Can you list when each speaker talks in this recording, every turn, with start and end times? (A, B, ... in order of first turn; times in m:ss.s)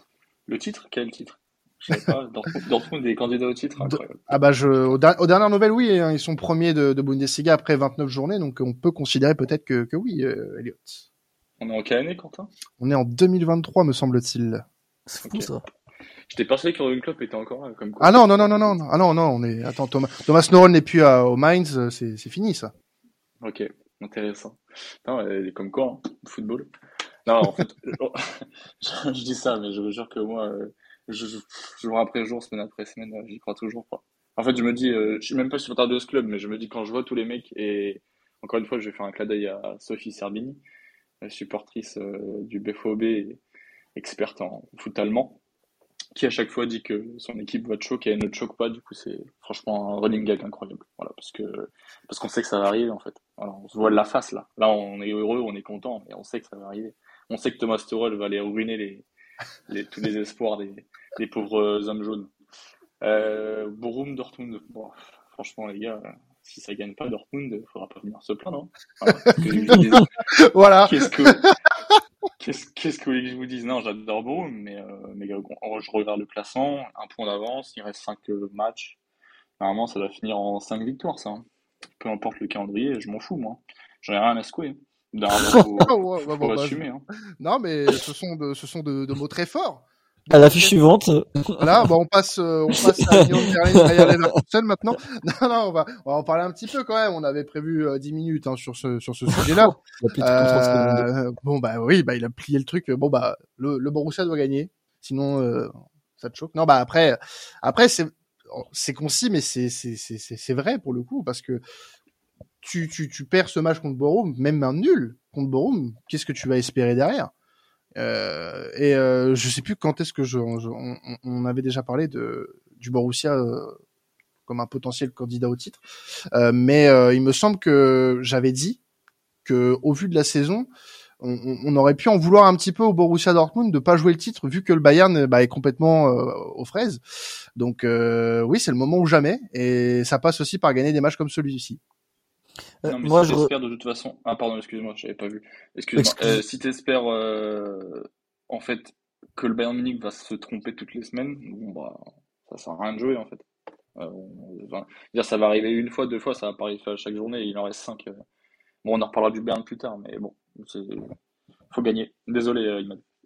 0:00.5-0:04.3 A
0:03.8-0:11.0 B
0:11.6-0:12.5 A
0:12.8-0:14.7 B
0:15.1-0:15.6 C
0:15.2-0:15.5 A
0:16.3-0:18.8 A
0:18.0-0:22.7 B
0:23.4-0:26.7 A
0:27.3-0:40.6 A
0:41.2-0:43.4 A
0:44.0-0:45.4 A
0:46.2-0:59.1 A
0:59.7-1:02.3 A
1:03.0-1:10.1 A
1:09.6-1:11.4 B
1:10.9-1:11.5 A
1:12.4-1:19.0 A
1:19.6-1:21.4 A
1:22.0-1:27.0 A
1:25.8-1:26.8 B
1:27.4-1:30.8 B
1:30.3-1:31.9 C
1:31.6-1:51.6 B
1:32.8-1:34.1 C
1:39.3-1:41.1 C
1:52.6-1:57.3 B
1:58.0-2:03.8 B
2:04.5-2:05.8 B
2:06.3-2:08.8 B
2:09.4-2:10.7 B
2:11.2-2:17.0 B
2:17.6-2:21.8 B
2:22.8-2:23.5 C
2:22.9-2:33.4 A
2:26.0-2:26.3 C
2:34.0-2:38.2 A
2:38.8-2:41.1 A
2:41.7-2:43.0 A